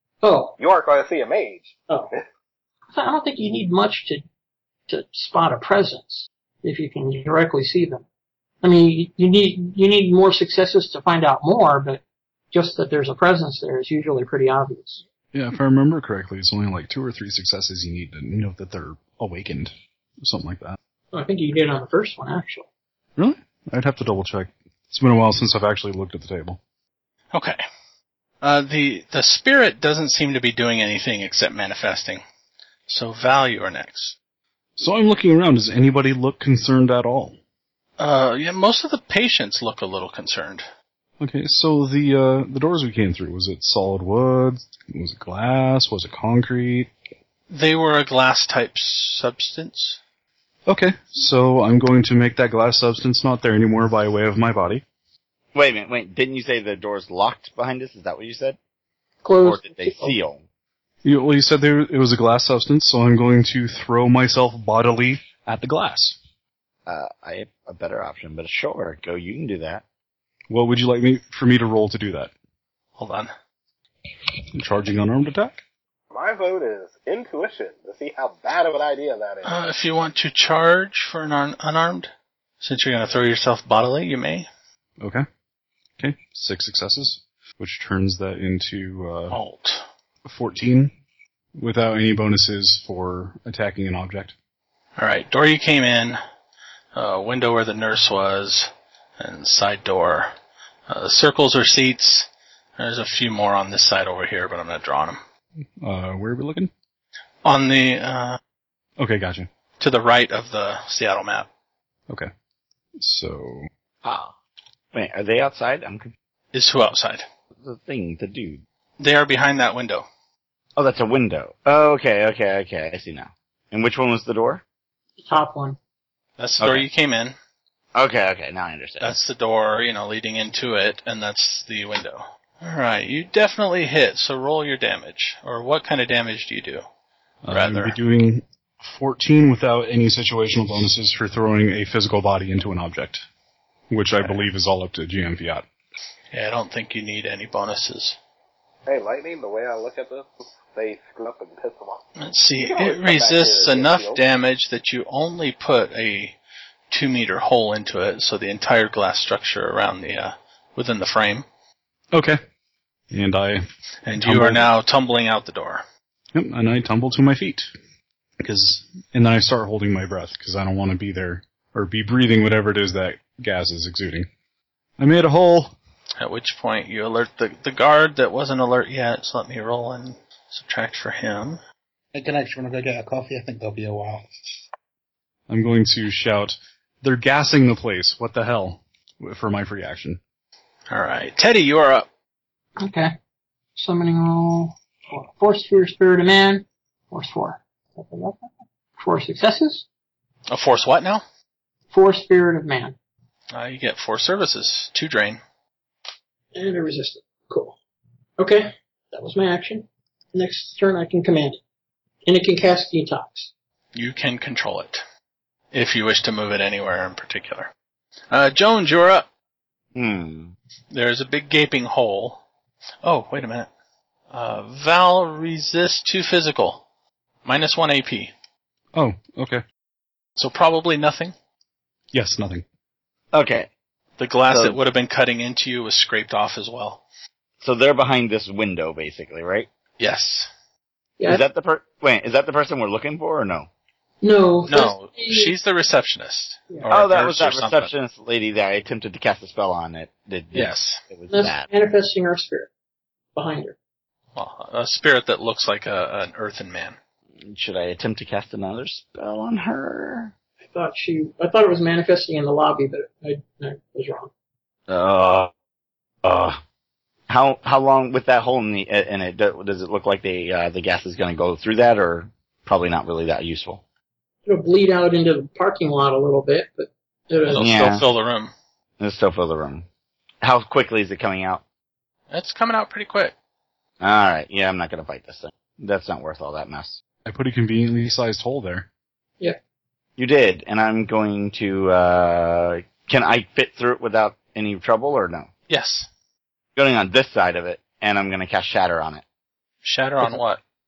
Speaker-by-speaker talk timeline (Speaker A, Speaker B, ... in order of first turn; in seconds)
Speaker A: 0.2-0.6, 2.9-4.2, 4.9-8.1, 8.6-15.0, 21.1-22.7, 59.2-60.1, 125.2-125.8, 192.8-193.1, 193.8-198.5, 199.0-199.9, 201.9-203.0, 206.5-207.8, 208.4-211.6, 212.2-213.5, 244.2-245.5, 251.3-252.7, 253.3-253.8, 260.7-264.3, 274.5-277.7
Speaker B: 0.6-1.7, 76.1-79.5, 148.9-152.0, 152.6-154.2
Speaker C: 15.3-20.8, 23.2-26.6, 34.8-37.4, 41.2-46.9, 50.7-54.8, 61.0-66.2, 70.5-72.3, 74.5-75.6, 85.0-85.2, 86.0-89.4, 90.2-90.9, 91.5-94.3, 105.8-106.7, 109.0-109.5, 113.0-113.7, 137.4-143.3, 143.9-145.7, 162.1-162.4, 163.1-163.7, 164.2-164.7, 166.3-167.7, 168.4-174.3, 175.0-175.7, 185.5-190.2, 228.9-229.6, 232.1-232.6, 287.3-288.9
Speaker D: 27.3-27.6, 28.4-32.2, 32.9-34.2, 38.0-40.7, 47.5-50.0, 73.0-73.3, 79.4-84.5, 89.3-89.8, 95.0-96.2, 97.0-100.3, 100.9-105.2, 107.4-108.4, 109.8-111.5, 116.5-117.3, 119.0-120.1, 126.4-127.4, 129.0-136.8, 137.5-138.0, 146.3-148.2, 152.2-156.4, 156.9-161.5, 164.1-165.8, 176.2-181.6, 190.9-192.1, 200.5-201.2, 203.5-205.4, 213.9-215.0, 215.7-217.7, 218.3-219.3, 220.9-222.4, 223.0-223.7, 224.3-226.8, 227.4-228.3, 230.4-231.3, 234.2-237.0, 240.0-240.5, 244.7-247.9, 250.5-251.0, 254.3-257.0, 277.5-278.5, 282.3-283.4, 295.7-296.1, 299.8-300.6
Speaker E: 55.5-58.6, 59.4-60.4, 66.9-69.8, 114.0-114.3, 114.9-116.1, 117.6-118.6, 120.8-124.6, 126.6-126.9, 128.0-129.2, 219.9-220.5, 233.3-233.7, 234.5-234.8, 237.6-239.7, 241.2-243.7, 246.9-251.7, 257.4-260.3, 264.9-265.5, 266.2-266.6, 267.3-273.8, 277.6-278.1, 279.0-279.9, 280.4-281.6, 284.0-287.0, 290.2-295.5, 296.8-299.2
Speaker F: 182.1-184.3